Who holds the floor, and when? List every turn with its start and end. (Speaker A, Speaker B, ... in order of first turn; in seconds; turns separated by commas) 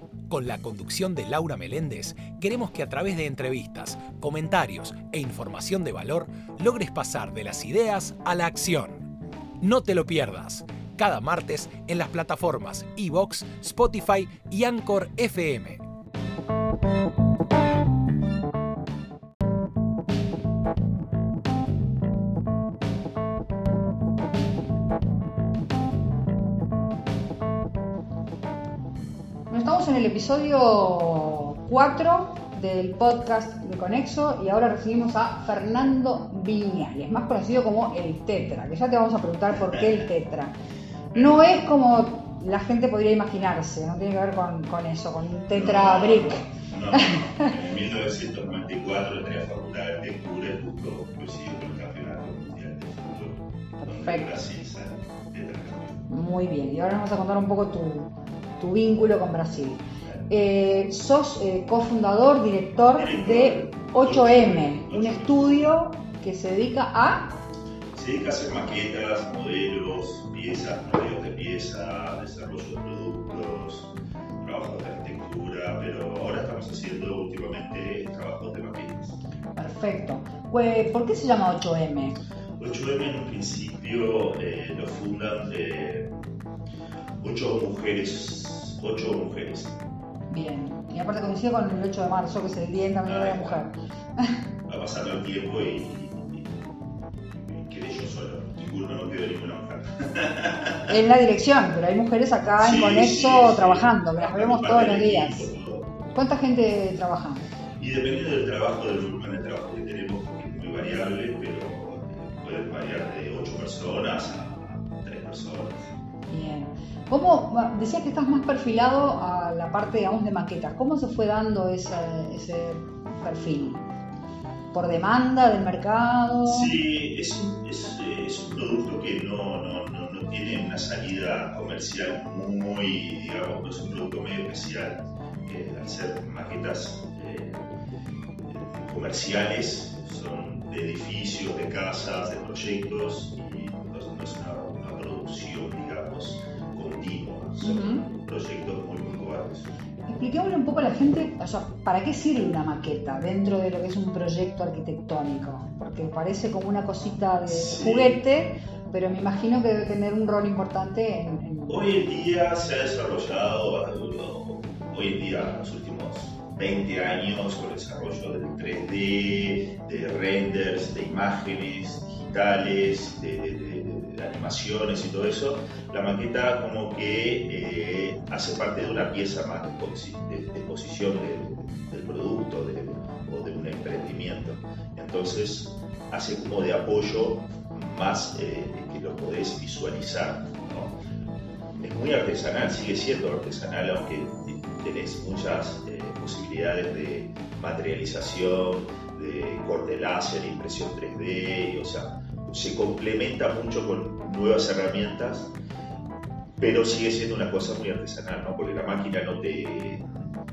Speaker A: 0.3-9.1, Speaker A: 9.6-15.8, Speaker B: 29.5-40.5, Speaker C: 41.1-41.5, Speaker B: 41.1-47.5, Speaker C: 45.5-56.1, Speaker B: 53.8-54.3, Speaker B: 56.1-67.3, Speaker C: 62.9-65.7, Speaker C: 67.9-79.2, Speaker B: 79.5-82.2, Speaker C: 82.6-86.1, Speaker C: 87.2-89.8, Speaker B: 90.3-94.4, Speaker C: 93.0-93.6, Speaker C: 94.7-96.5, Speaker C: 97.4-101.0, Speaker B: 100.9-105.5, Speaker C: 102.6-106.0, Speaker B: 106.1-107.4, Speaker C: 107.8-115.9, Speaker B: 116.3-123.9, Speaker B: 124.7-126.8, Speaker C: 126.4-137.7, Speaker C: 138.5-149.7, Speaker B: 147.6-148.1, Speaker B: 150.1-161.8, Speaker C: 157.5-158.2, Speaker C: 161.7-191.0, Speaker C: 191.7-205.5, Speaker C: 206.6-210.3